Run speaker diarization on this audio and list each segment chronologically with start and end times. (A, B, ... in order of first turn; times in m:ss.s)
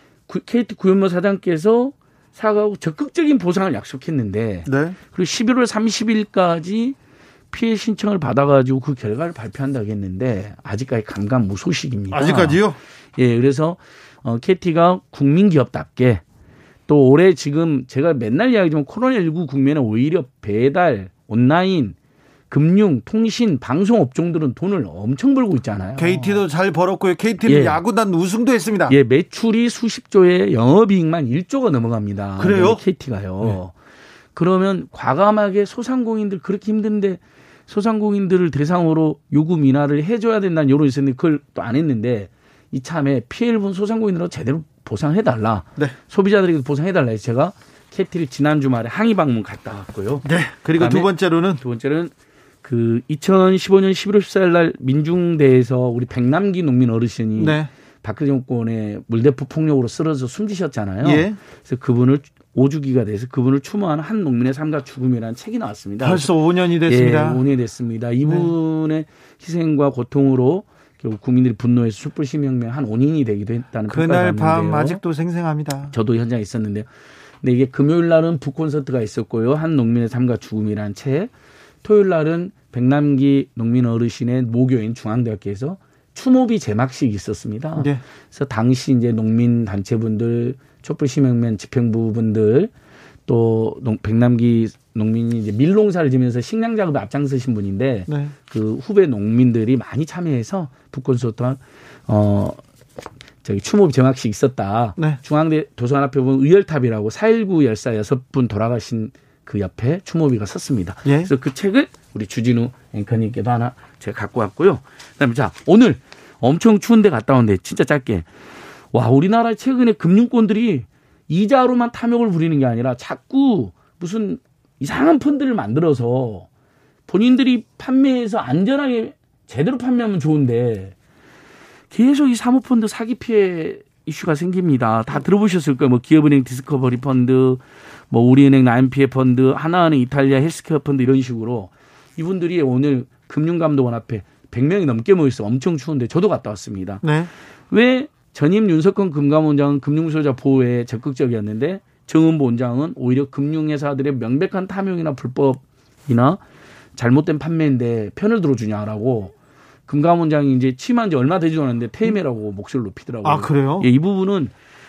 0:00.3-0:07.0 A
0:04.6-0:05.0 B
0:07.5-0:12.6 A
0:12.1-0:12.8 B
0:13.2-0:16.2 A
0:16.9-0:21.9 A
0:22.5-0:26.4 A
0:26.0-0:29.0 B
0:27.4-0:27.8 A
0:28.9-0:33.7 A
0:32.4-0:32.8 B
0:34.3-0:50.2 A
0:50.2-0:51.6 B
0:50.8-0:52.1 A
0:52.6-1:06.3 A
0:57.4-0:57.7 B
1:01.0-1:01.4 B
1:06.0-1:07.4 B
1:06.9-1:15.0 A
1:08.2-1:08.5 B
1:13.9-1:15.9 B
1:15.9-1:16.9 A
1:17.4-1:21.3 A
1:21.8-1:32.7 A
1:27.8-1:28.0 B
1:33.3-1:42.6 A
1:38.1-1:38.3 B
1:43.4-1:58.2 A
1:51.0-1:51.3 B
1:58.9-2:06.5 A
2:07.1-2:10.9 A
2:11.9-2:27.0 A
2:27.0-2:27.3 B
2:27.7-2:36.4 A
2:37.0-2:39.3 A
2:39.9-2:44.5 A
2:43.2-2:43.9 B